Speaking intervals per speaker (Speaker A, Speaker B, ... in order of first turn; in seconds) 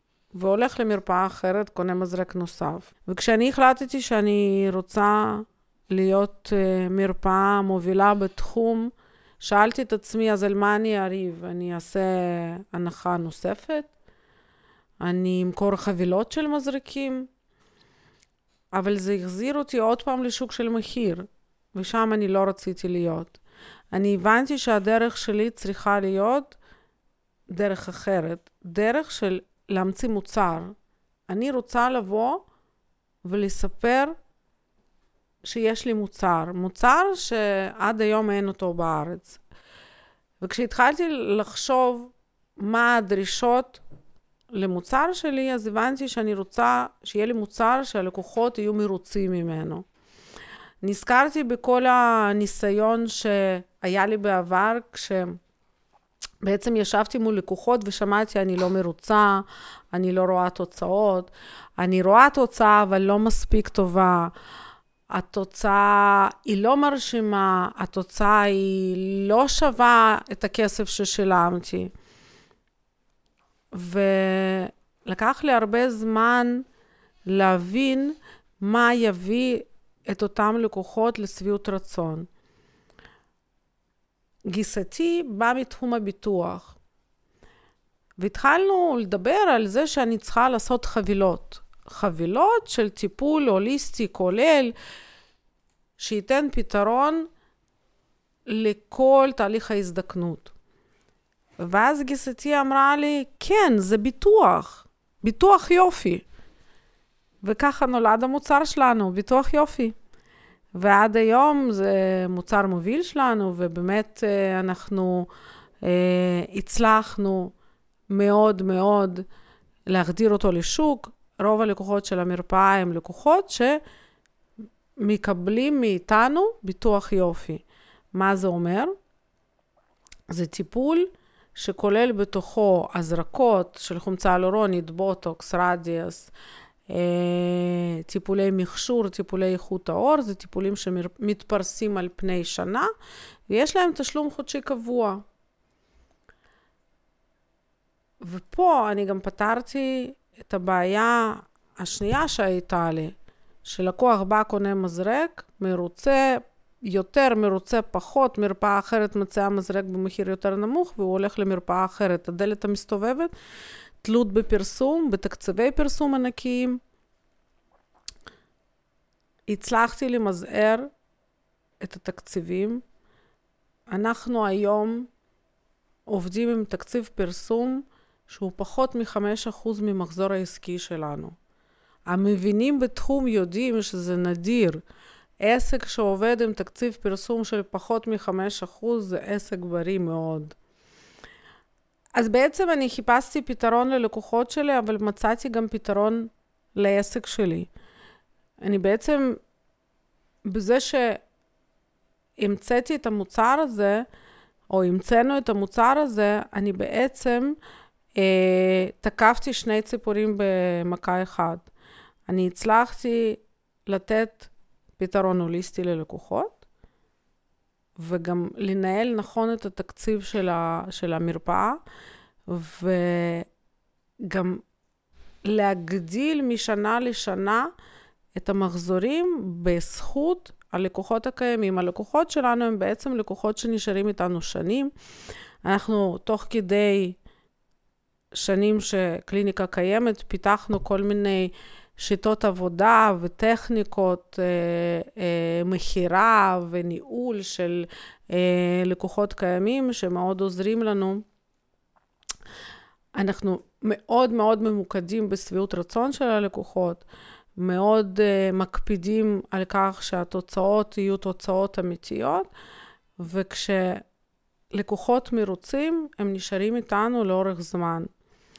Speaker A: 0.3-13.9, 15.0-17.3, 18.7-23.4, 23.9-26.6, 27.5-30.7, 31.3-32.4, 33.2-34.1, 35.4-39.4, 40.4-43.8, 44.5-49.8, 50.8-55.4, 56.4-64.3, 65.1-71.9, 73.7-76.6, 77.3-82.3, 84.5-86.8, 88.2-94.7, 96.0-97.3, 98.5-100.5, 101.6-106.2, 107.4-110.0, 110.7-115.3, 115.8-117.5, 118.1-119.2, 119.9-123.8, 125.0-128.9, 130.3-136.3, 136.9-142.9, 143.5-145.2, 148.2-163.3, 164.0-166.8, 169.5-170.9, 171.8-172.8, 173.9-175.1, 176.1-181.3, 182.1-184.8, 185.4-190.6, 192.1-197.7, 198.6-199.4, 200.4-201.2, 202.4-204.1, 204.7-207.6, 208.2-211.7, 212.3-216.6, 218.0-221.8, 222.5-223.5, 224.2-224.6, 225.4-227.7, 228.3-234.9, 235.6-237.2, 238.3-251.2, 253.1-257.0, 257.6-262.5, 263.2-264.0, 264.7-268.1